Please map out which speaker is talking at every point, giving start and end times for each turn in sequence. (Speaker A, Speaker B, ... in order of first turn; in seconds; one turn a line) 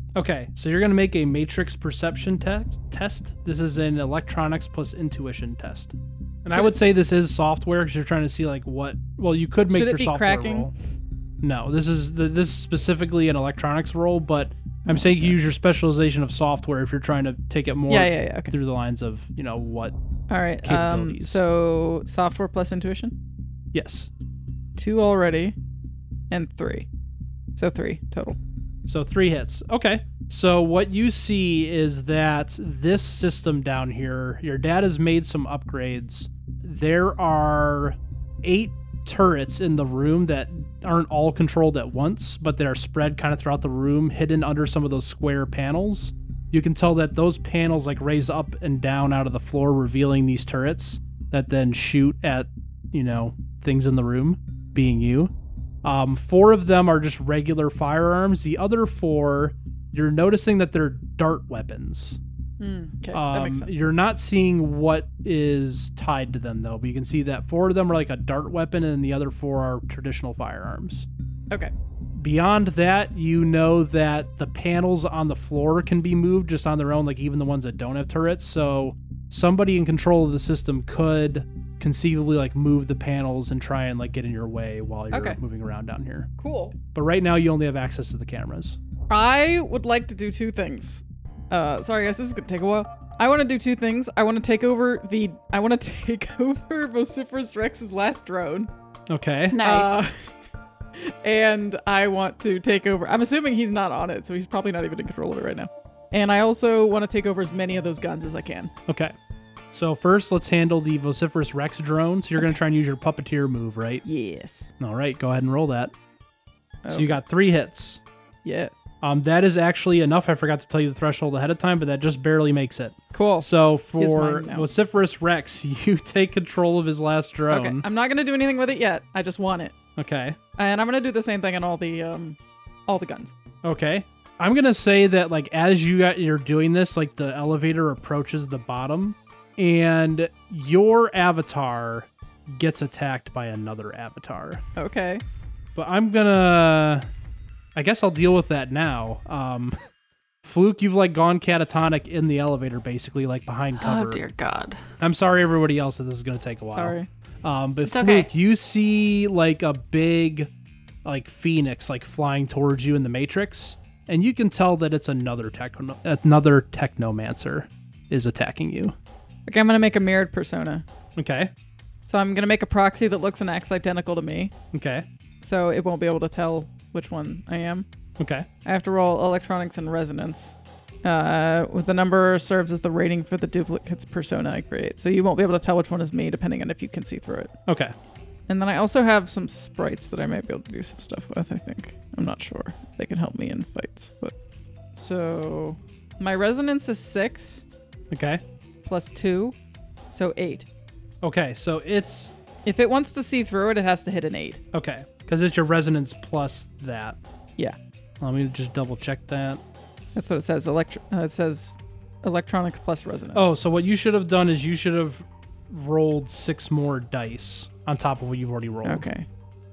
Speaker A: 0.1-10.7
Speaker B: 6.5-6.8
Speaker B: 9.7-10.7
Speaker A: 11.4-19.9
Speaker B: 14.8-15.3
Speaker B: 17.9-18.5
Speaker B: 20.3-23.1
Speaker A: 20.6-21.4
Speaker A: 23.7-24.1
Speaker B: 24.8-25.6
Speaker B: 26.3-26.9
Speaker B: 27.6-28.4
Speaker A: 28.9-55.3
Speaker A: 55.8-62.2
Speaker B: 62.6-63.7
Speaker A: 63.1-71.1
Speaker A: 72.2-86.3
Speaker B: 85.1-85.4
Speaker B: 86.4-86.8
Speaker A: 86.9-88.8
Speaker B: 89.1-98.7
Speaker A: 99.1-99.6
Speaker C: 99.5-100.1
Speaker B: 99.6-100.2
Speaker B: 101.0-108.7
Speaker A: 108.9-109.1
Speaker A: 109.7-114.0
Speaker B: 114.0-114.7
Speaker A: 114.8-115.9
Speaker B: 116.8-117.2
Speaker A: 116.9-118.0
Speaker B: 118.4-118.8
Speaker A: 119.0-127.8
Speaker B: 123.1-124.7
Speaker B: 127.5-129.8
Speaker A: 130.0-130.4
Speaker B: 130.6-133.3
Speaker A: 133.6-144.6
Speaker B: 144.8-145.2
Speaker A: 145.8-147.1
Speaker A: 147.8-149.8
Speaker A: 150.4-154.2
Speaker C: 153.8-154.8
Speaker A: 155.0-160.5
Speaker B: 156.7-157.1
Speaker C: 157.8-158.3
Speaker A: 161.0-168.9
Speaker B: 169.5-170.8
Speaker A: 171.2-171.5
Speaker B: 172.1-174.5
Speaker A: 174.7-175.0
Speaker B: 175.4-177.8
Speaker A: 178.2-178.5
Speaker B: 178.6-187.5
Speaker A: 187.7-187.9
Speaker B: 188.5-194.3
Speaker B: 194.9-197.6
Speaker A: 198.1-198.4
Speaker B: 198.8-199.6
Speaker B: 200.1-200.7
Speaker A: 201.2-202.4
Speaker B: 202.6-204.6
Speaker A: 204.7-207.2
Speaker A: 208.2-209.6
Speaker B: 210.1-213.5
Speaker A: 213.3-219.1
Speaker B: 218.8-219.2